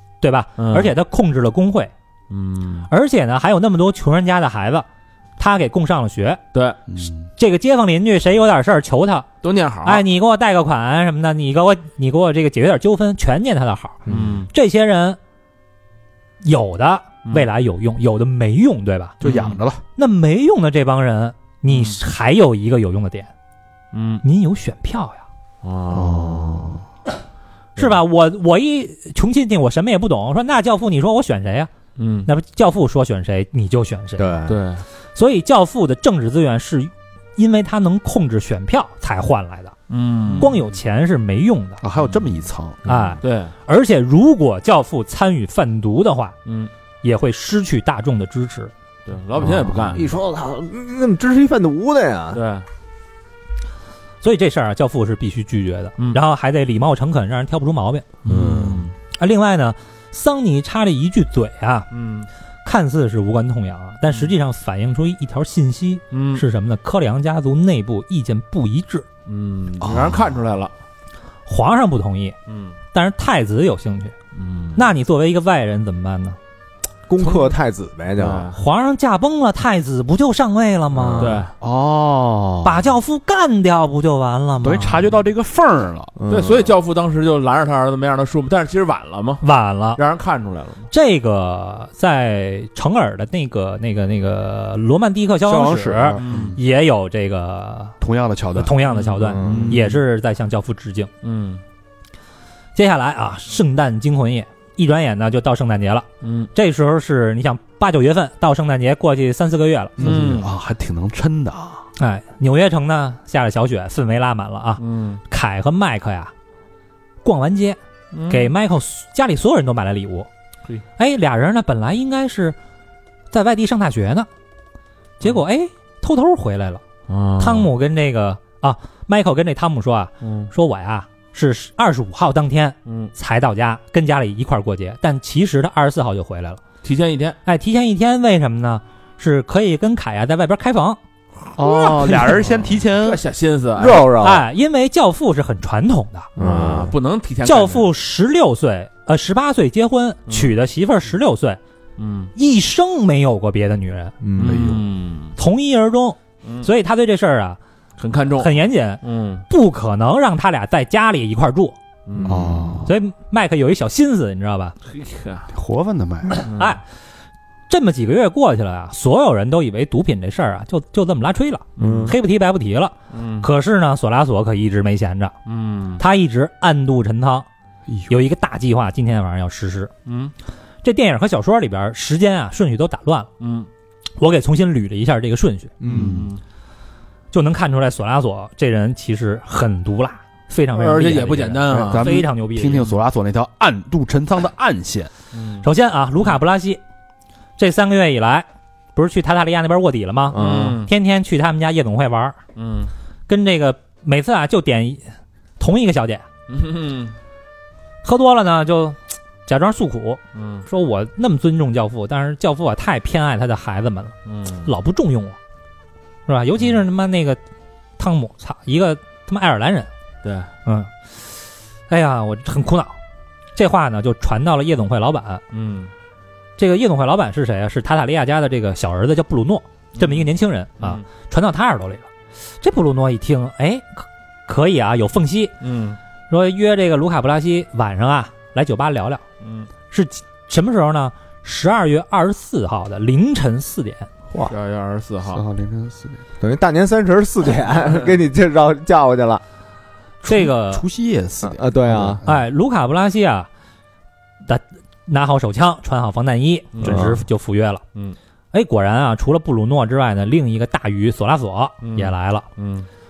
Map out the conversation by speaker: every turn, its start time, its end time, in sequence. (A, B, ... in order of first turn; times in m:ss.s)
0:00.2-0:01.9 A
0:00.6-0:00.9 B
0:02.3-0:02.9 B
0:02.9-0:04.9 A
0:05.4-0:06.4 A
0:06.5-0:06.8 B
0:06.9-0:07.2 C
0:07.4-0:09.3 A
0:09.4-0:10.0 B
0:09.8-0:15.2 A
0:14.1-0:14.5 B
0:16.4-0:19.2 A
0:19.2-0:19.8 C
0:19.2-0:19.6 B
0:20.0-0:23.3 A
0:21.7-0:22.0 B
0:23.9-0:24.2 B
0:24.2-0:25.2 A
0:25.6-0:26.7 B
0:25.9-0:26.8 C
0:27.8-0:31.7 A
0:32.0-0:32.3 B
0:32.3-0:34.3 A
0:34.2-0:34.6 D
0:34.5-0:34.8 B
0:35.2-0:39.8 A
0:39.9-0:40.6 B
0:40.4-0:41.8 A
0:41.8-0:42.8 C
0:42.9-0:43.2 D
0:42.9-0:46.4 A
0:43.2-0:43.5 B
0:46.5-0:46.7 B
0:47.0-0:48.7 A
0:49.1-0:50.1 B
0:49.9-0:52.4 D
0:52.3-0:52.6 B
0:54.2-0:58.1 A
0:58.2-0:58.9 B
0:58.3-0:58.9 D
0:59.1-1:01.9 A
1:01.9-1:02.3 B
1:02.6-1:09.1 A
1:04.1-1:04.3 B
1:06.1-1:06.4 B
1:09.3-1:10.7 B
1:09.8-1:10.2 C
1:11.5-1:12.4 A
1:12.5-1:12.8 B
1:12.9-1:14.1 A
1:14.4-1:14.9 B
1:14.8-1:16.4 A
1:17.1-1:18.5 D
1:18.2-1:18.6 B
1:18.5-1:21.4 A
1:20.9-1:21.4 D
1:21.2-1:21.5 B
1:21.6-1:22.9 C
1:22.6-1:25.0 A
1:24.6-1:26.1 C
1:26.2-1:26.7 D
1:26.3-1:29.4 B
1:29.4-1:30.0 A
1:30.0-1:30.9 B
1:30.9-1:38.0 A
1:35.4-1:36.6 C
1:36.2-1:36.6 B
1:38.0-1:38.7 C
1:38.6-1:41.1 A
1:38.9-1:39.7 B
1:39.2-1:39.8 D
1:39.4-1:40.0 C
1:41.2-1:41.6 B
1:42.8-1:50.0 A
1:46.2-1:46.5 B
1:50.0-1:51.9 C
1:50.0-1:50.5 B
1:52.0-1:56.3 A
1:54.8-1:55.2 B
1:57.2-1:57.8 A
1:58.1-1:58.5 B
1:58.3-2:00.3 A
2:01.0-2:02.6 A
2:03.3-2:04.3 A
2:05.2-2:06.8 A
2:07.1-2:07.7 B
2:07.4-2:16.6 A
2:10.2-2:10.5 B
2:12.9-2:13.1 B
2:16.8-2:17.4 B
2:17.4-2:21.0 A
2:21.6-2:23.2 C
2:21.6-2:22.4 A
2:21.9-2:24.1 B
2:23.8-2:24.5 D
2:24.2-2:26.3 A
2:26.4-2:26.9 D
2:26.4-2:27.9 B
2:27.4-2:31.6 A
2:32.0-2:32.3 B
2:32.4-2:34.1 A
2:34.2-2:34.8 D
2:34.4-2:34.8 C
2:34.4-2:35.4 B
2:35.4-2:37.6 A
2:38.0-2:39.4 B
2:38.4-2:41.8 A
2:42.1-2:42.6 B
2:42.2-2:42.8 D
2:42.2-2:42.9 C
2:42.8-2:44.8 A
2:44.9-2:45.5 B
2:45.5-2:46.5 C
2:46.4-2:46.8 A
2:46.4-2:46.8 B
2:47.7-2:55.3 A
2:51.8-2:52.2 B
2:51.8-2:52.1 C
2:51.8-2:52.1 D
2:53.1-2:53.5 B
2:55.5-2:56.0 B
2:56.0-2:57.5 A
2:57.9-2:58.1 C
2:58.1-2:59.9 A
3:00.1-3:00.3 B
3:00.8-3:03.3 A
3:03.4-3:03.7 B
3:04.2-3:05.7 A
3:05.8-3:06.2 D
3:05.8-3:06.3 C
3:05.8-3:06.4 B
3:07.3-3:12.9 A
3:10.8-3:12.2 B
3:11.7-3:15.1 C
3:15.3-3:15.7 B
3:15.6-3:16.8 A
3:17.6-3:22.4 A
3:20.3-3:20.8 D
3:20.3-3:20.9 B
3:22.6-3:22.9 B
3:23.3-3:25.0 A
3:25.6-3:26.2 A
3:26.5-3:27.2 B
3:28.0-3:34.1 A
3:30.3-3:30.6 B
3:34.3-3:34.7 B
3:34.6-3:35.4 A
3:36.3-3:37.4 A
3:38.0-3:39.9 A
3:40.2-3:40.5 B
3:40.6-3:40.9 A
3:41.9-3:43.0 A
3:43.6-3:45.4 A
3:45.5-3:45.9 B
3:46.6-3:52.1 A
3:50.0-3:50.3 B
3:52.6-3:55.5 A
3:55.6-3:56.0 B
3:56.3-3:59.2 A
3:59.4-3:59.7 B
3:59.9-4:04.1 A
4:04.5-4:05.4 B
4:05.3-4:06.2 C
4:06.4-4:09.4 D
4:10.2-4:10.8 A
4:10.3-4:12.4 C
4:11.4-4:12.2 D
4:12.2-4:13.5 A
4:14.5-4:17.8 A
4:16.8-4:17.2 B
4:16.8-4:17.2 D
4:18.5-4:22.5 A
4:21.8-4:22.9 B